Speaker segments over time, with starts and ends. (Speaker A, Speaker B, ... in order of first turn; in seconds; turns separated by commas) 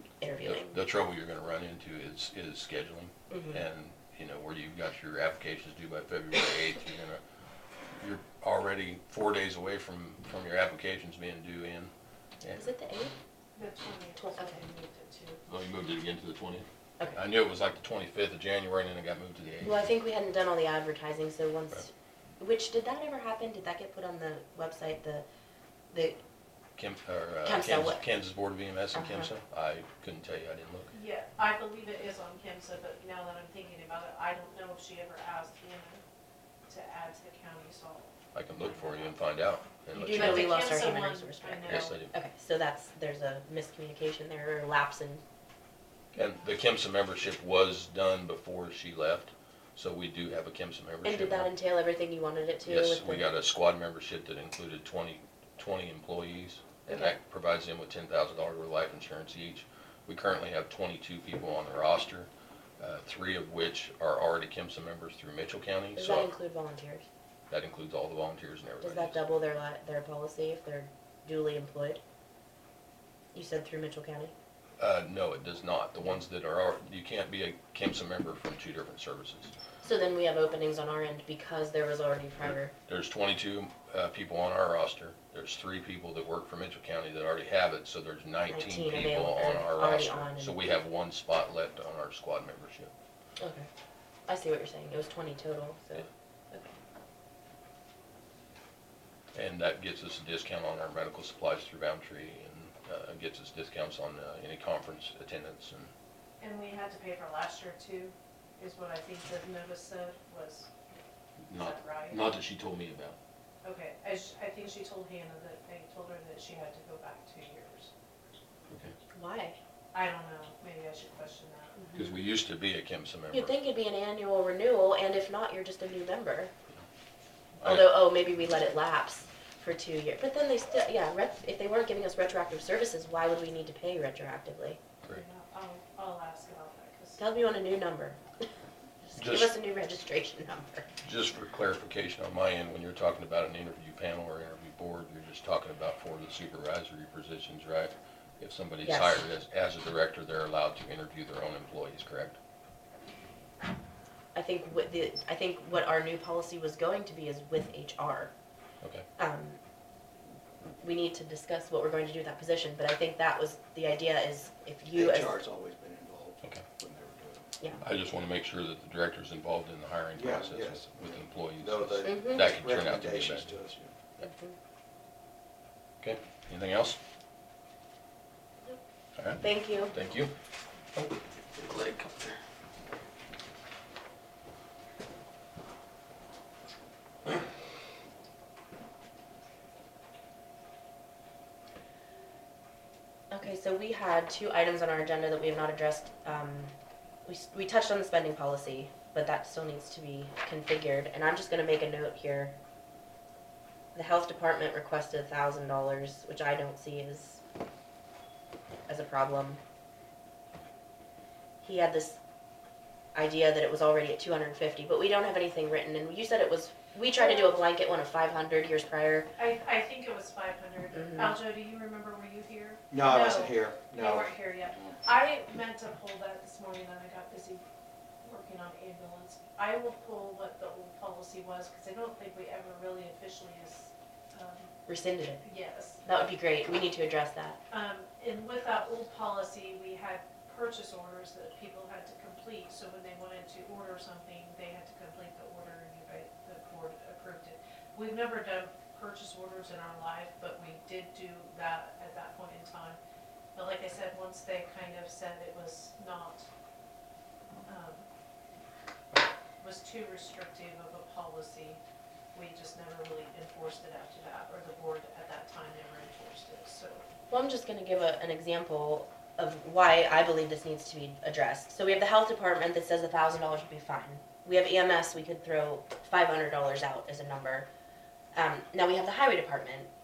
Speaker A: 0.2-0.8, Speaker B: 0.4-7.2, Speaker A: 3.3-3.6, Speaker B: 8.0-12.7, Speaker A: 12.5-13.1, Speaker C: 13.5-15.4, Speaker A: 14.2-14.6, Speaker B: 15.5-19.8, Speaker A: 19.6-25.2, Speaker A: 25.9-26.2, Speaker B: 26.8-30.9, Speaker A: 27.4-28.1, Speaker A: 28.9-29.3, Speaker C: 30.9-36.0, Speaker C: 36.7-39.2, Speaker B: 38.3-40.7, Speaker A: 39.9-45.2, Speaker C: 40.0-42.0, Speaker B: 41.6-42.1, Speaker B: 46.1-51.5, Speaker A: 51.0-53.3, Speaker B: 52.6-66.3, Speaker A: 56.9-57.1, Speaker A: 66.0-67.0, Speaker B: 67.5-69.2, Speaker A: 68.8-72.0, Speaker A: 73.3-74.3, Speaker B: 74.8-79.5, Speaker A: 79.8-82.7, Speaker B: 82.8-92.9, Speaker A: 88.5-90.6, Speaker A: 93.4-93.7, Speaker A: 94.3-96.7, Speaker B: 99.3-105.9, Speaker C: 106.4-111.0, Speaker B: 111.5-113.2, Speaker C: 111.5-112.3, Speaker C: 113.6-117.9, Speaker B: 118.7-118.9, Speaker A: 119.1-119.6, Speaker C: 119.9-121.8, Speaker B: 121.9-123.6, Speaker A: 123.3-126.5, Speaker B: 127.6-127.9, Speaker A: 127.6-134.8, Speaker C: 135.1-137.2, Speaker A: 137.2-138.2, Speaker A: 139.1-140.9, Speaker B: 139.1-139.5, Speaker B: 141.0-152.3, Speaker A: 148.8-149.2, Speaker A: 154.3-158.3, Speaker A: 159.2-159.6, Speaker A: 160.8-165.4, Speaker D: 164.9-167.5, Speaker B: 167.8-173.6, Speaker D: 170.1-173.9, Speaker A: 172.0-172.5, Speaker A: 174.2-174.5, Speaker B: 176.0-177.0, Speaker B: 179.2-180.3, Speaker A: 179.4-179.9, Speaker B: 180.9-182.4, Speaker A: 193.3-196.7, Speaker A: 197.2-202.6, Speaker A: 203.9-207.4, Speaker A: 208.9-209.6, Speaker A: 211.6-212.2, Speaker A: 213.1-219.3, Speaker C: 217.1-217.6, Speaker C: 219.4-227.6, Speaker D: 222.9-224.5, Speaker C: 228.2-234.7, Speaker A: 234.9-235.4, Speaker C: 235.4-236.0, Speaker A: 236.0-237.6, Speaker C: 237.7-253.0, Speaker C: 253.5-256.5, Speaker C: 257.7-258.1, Speaker C: 259.6-261.8, Speaker C: 262.3-267.0, Speaker A: 267.3-277.7, Speaker A: 278.3-279.9